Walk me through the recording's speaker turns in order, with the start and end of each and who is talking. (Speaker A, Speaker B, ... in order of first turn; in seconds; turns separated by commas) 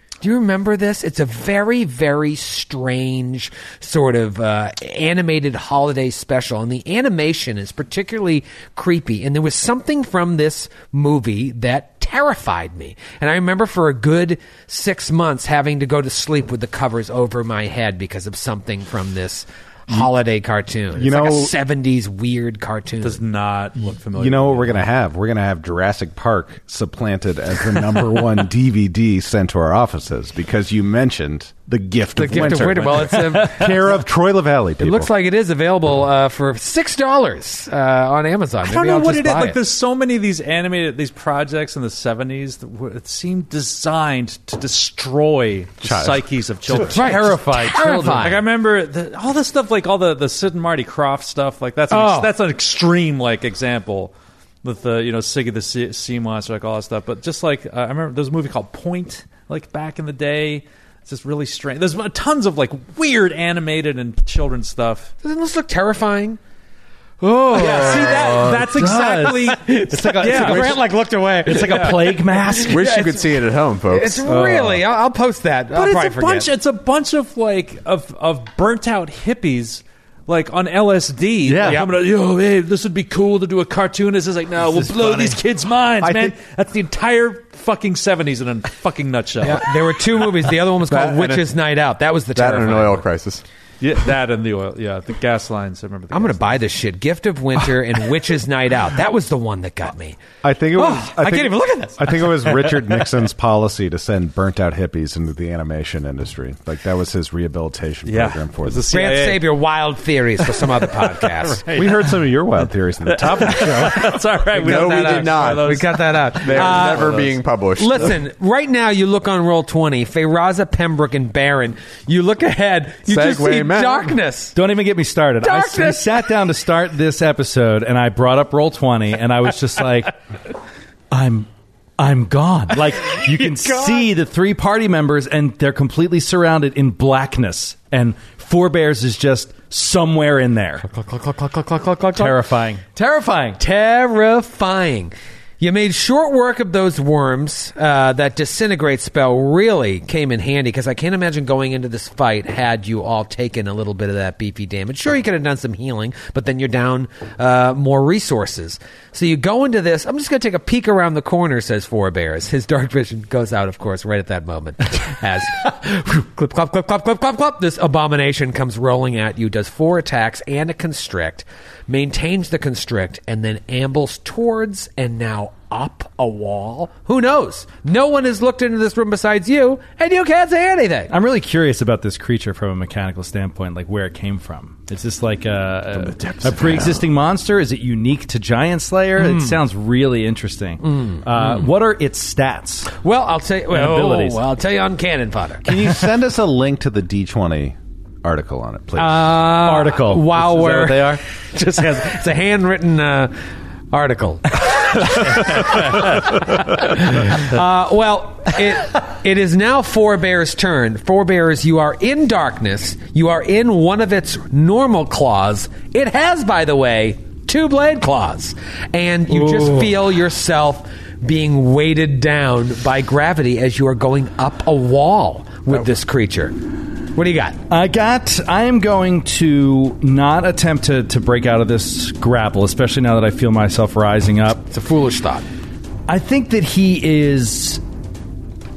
Speaker A: 0.2-23.2, Speaker B: 20.9-21.5, Speaker C: 23.0-24.9, Speaker B: 24.1-35.1, Speaker A: 32.1-34.0, Speaker A: 34.8-39.6, Speaker C: 38.6-54.1, Speaker B: 45.8-46.9, Speaker A: 46.7-48.4, Speaker D: 47.0-48.3, Speaker A: 51.9-52.3, Speaker C: 54.6-65.1, Speaker A: 65.2-66.4, Speaker A: 67.2-68.6, Speaker C: 67.5-70.8, Speaker D: 67.6-70.9, Speaker A: 69.2-76.5, Speaker D: 71.4-72.9, Speaker C: 71.5-72.0, Speaker E: 72.7-74.2, Speaker D: 74.3-74.8, Speaker C: 75.7-90.3, Speaker D: 81.5-81.9, Speaker A: 81.6-81.9, Speaker D: 84.7-85.3, Speaker B: 86.0-86.3, Speaker A: 89.4-93.0, Speaker E: 90.8-91.5, Speaker E: 92.3-93.4, Speaker C: 93.8-96.6, Speaker A: 96.1-100.2, Speaker B: 100.4-108.9, Speaker A: 100.8-102.1, Speaker C: 108.0-109.6, Speaker A: 108.9-111.7, Speaker C: 110.4-112.2, Speaker B: 111.7-114.1, Speaker C: 113.0-117.2, Speaker E: 114.5-118.2, Speaker A: 114.7-124.5, Speaker E: 123.1-124.2, Speaker D: 124.5-130.1, Speaker A: 125.4-126.3, Speaker D: 131.1-131.5, Speaker D: 132.0-140.9, Speaker A: 133.1-134.1, Speaker A: 140.9-142.4, Speaker D: 142.2-143.6, Speaker A: 143.6-181.1, Speaker D: 181.1-192.9, Speaker E: 186.1-186.9, Speaker A: 189.2-189.6, Speaker A: 190.9-191.6, Speaker A: 193.0-196.0, Speaker D: 193.7-194.4, Speaker B: 195.6-199.4, Speaker A: 199.0-203.3, Speaker D: 199.6-201.2, Speaker A: 203.9-226.5, Speaker D: 219.3-219.9, Speaker A: 227.1-227.6, Speaker D: 227.7-234.6, Speaker A: 234.7-235.5, Speaker D: 236.1-237.8